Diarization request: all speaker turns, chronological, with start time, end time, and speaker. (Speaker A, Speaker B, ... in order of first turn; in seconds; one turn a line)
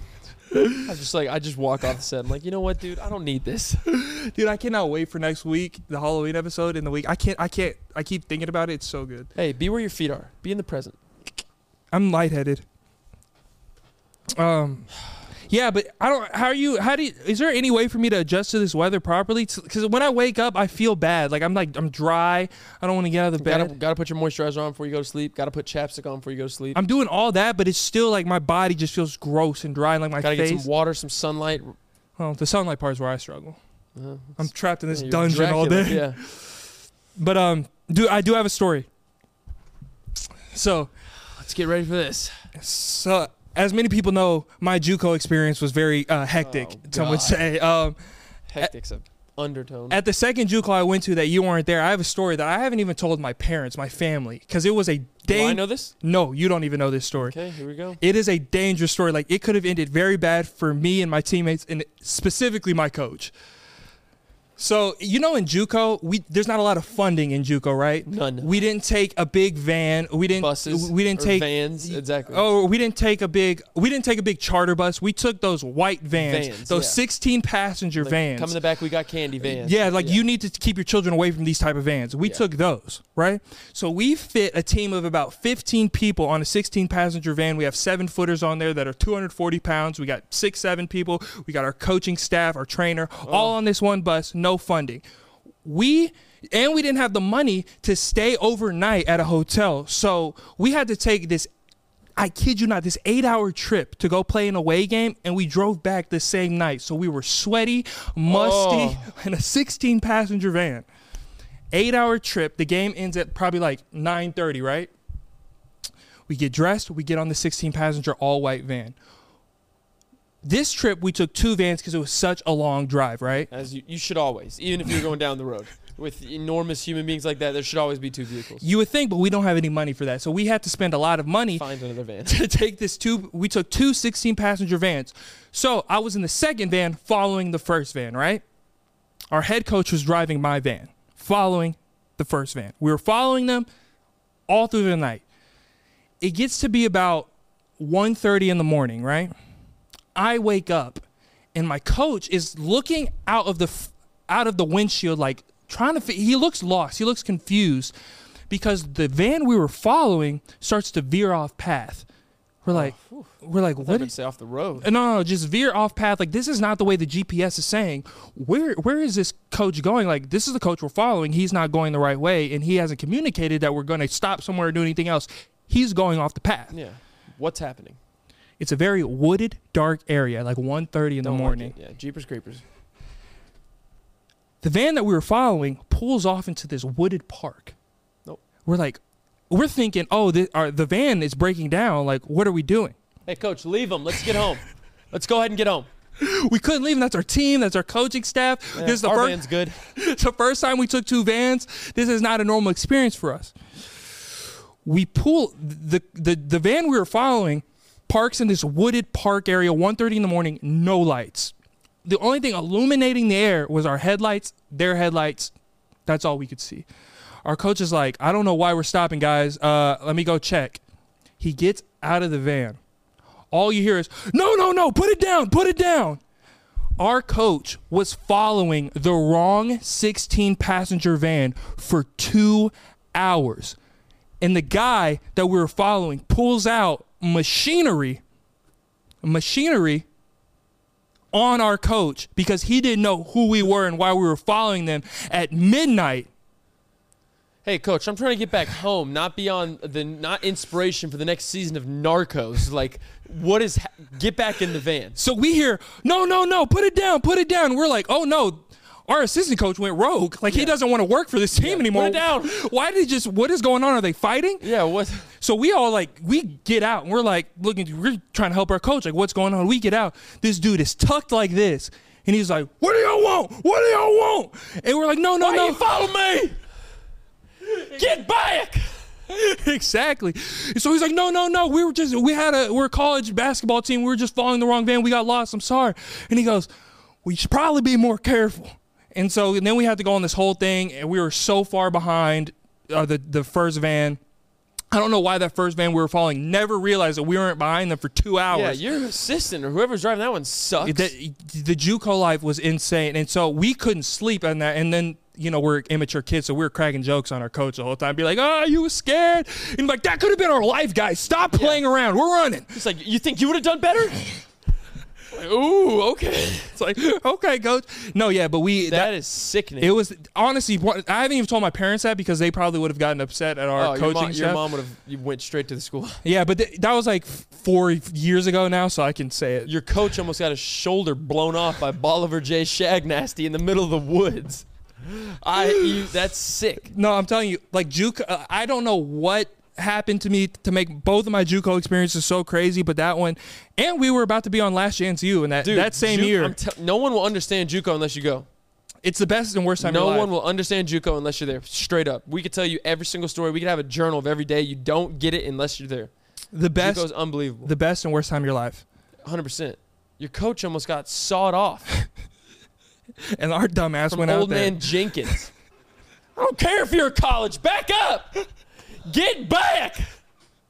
Speaker A: 0.5-0.8
Speaker B: 0.8-3.8
Speaker A: 3.9-9.3
Speaker B: 9.3-11.0
Speaker A: 11.9-12.6
Speaker A: 14.3-14.9
Speaker A: 15.5-23.7
Speaker B: 23.4-26.8
Speaker A: 26.7-30.7
Speaker B: 30.2-31.8
Speaker A: 32.2-33.6
Speaker B: 34.0-36.2
Speaker A: 34.4-36.6
Speaker A: 37.1-38.9
Speaker A: 40.5-40.9
Speaker B: 41.3-42.4
Speaker A: 42.5-48.0
Speaker B: 46.4-47.4
Speaker B: 48.5-50.0
Speaker A: 49.9-57.3
Speaker B: 55.3-55.9
Speaker B: 57.2-58.0
Speaker A: 58.0-63.3
Speaker A: 64.6-78.5
Speaker B: 68.0-68.5
Speaker B: 70.4-72.5
Speaker B: 76.1-77.0
Speaker B: 78.0-80.2
Speaker A: 79.4-95.0
Speaker B: 93.2-93.5
Speaker A: 95.6-101.5
Speaker A: 102.2-110.9
Speaker B: 108.3-109.1
Speaker A: 111.7-114.9
Speaker A: 116.3-119.0
Speaker A: 120.4-123.5
Speaker B: 123.5-128.7
Speaker A: 128.6-131.6
Speaker B: 131.5-132.4
Speaker A: 132.2-138.4
Speaker A: 139.3-143.7
Speaker A: 144.5-145.2
Speaker A: 146.2-149.3
Speaker A: 150.1-157.9
Speaker A: 158.5-162.1
Speaker A: 162.6-164.1
Speaker B: 162.7-164.9
Speaker A: 164.8-176.7
Speaker B: 176.7-178.0
Speaker A: 178.6-181.7
Speaker B: 181.2-182.6
Speaker A: 184.6-187.8
Speaker A: 188.7-189.0
Speaker A: 189.5-192.9
Speaker B: 193.3-195.9
Speaker A: 196.2-211.5
Speaker B: 198.7-199.8
Speaker A: 212.0-215.5
Speaker A: 216.1-216.9
Speaker A: 217.4-220.8
Speaker A: 221.4-222.8
Speaker A: 223.5-226.2
Speaker A: 227.0-233.8
Speaker A: 234.4-238.2
Speaker A: 239.2-240.1
Speaker A: 241.3-246.3
Speaker B: 247.6-255.2
Speaker A: 255.2-264.6
Speaker B: 260.5-260.7
Speaker B: 261.6-262.6
Speaker B: 264.6-265.3
Speaker A: 265.4-276.0
Speaker B: 275.4-276.6
Speaker B: 277.6-278.9
Speaker A: 279.3-286.7
Speaker A: 287.2-294.2
Speaker A: 294.9-298.8
Speaker B: 298.5-301.1
Speaker A: 300.8-312.7
Speaker B: 311.5-311.8
Speaker B: 312.7-314.2
Speaker B: 315.3-316.7
Speaker A: 316.7-319.1
Speaker B: 318.9-320.0
Speaker A: 319.8-324.6
Speaker B: 323.8-326.2
Speaker A: 326.2-329.7
Speaker B: 329.6-336.9
Speaker A: 335.6-336.0
Speaker A: 336.9-346.6
Speaker B: 345.6-348.5
Speaker A: 349.0-350.3
Speaker B: 349.8-356.1
Speaker A: 356.5-357.1
Speaker B: 356.8-357.7
Speaker A: 357.6-358.8
Speaker B: 359.2-361.9
Speaker A: 363.4-365.3
Speaker B: 364.1-365.5
Speaker B: 366.4-368.4
Speaker B: 369.0-370.1